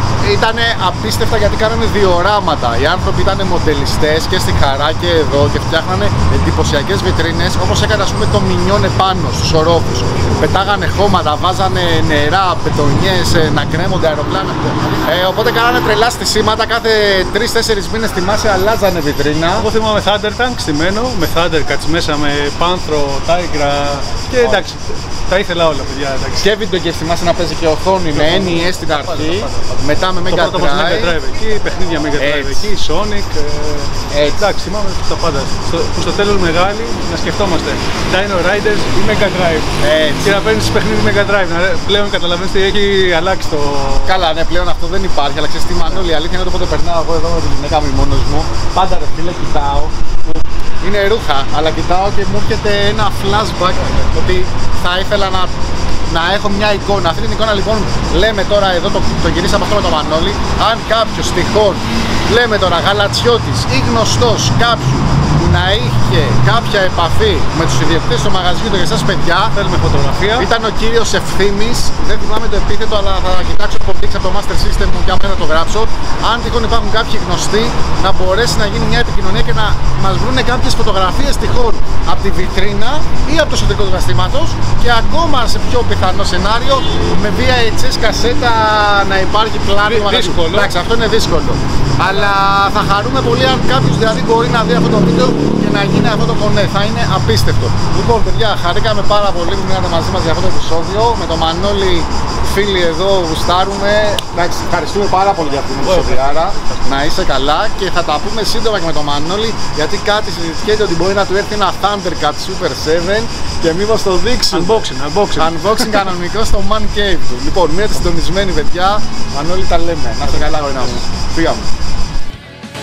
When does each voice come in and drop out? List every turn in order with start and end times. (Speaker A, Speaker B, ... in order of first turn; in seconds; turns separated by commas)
Speaker A: 0.2-19.7, Speaker B: 19.6-26.5, Speaker A: 24.4-24.7, Speaker A: 26.4-31.2, Speaker B: 28.1-44.2, Speaker A: 32.2-32.7, Speaker A: 34.1-34.5, Speaker A: 39.8-40.4, Speaker A: 44.0-69.5, Speaker B: 69.5-70.5, Speaker A: 70.3-121.7, Speaker B: 89.8-90.7, Speaker B: 105.2-107.0, Speaker B: 114.5-116.1, Speaker B: 120.2-121.0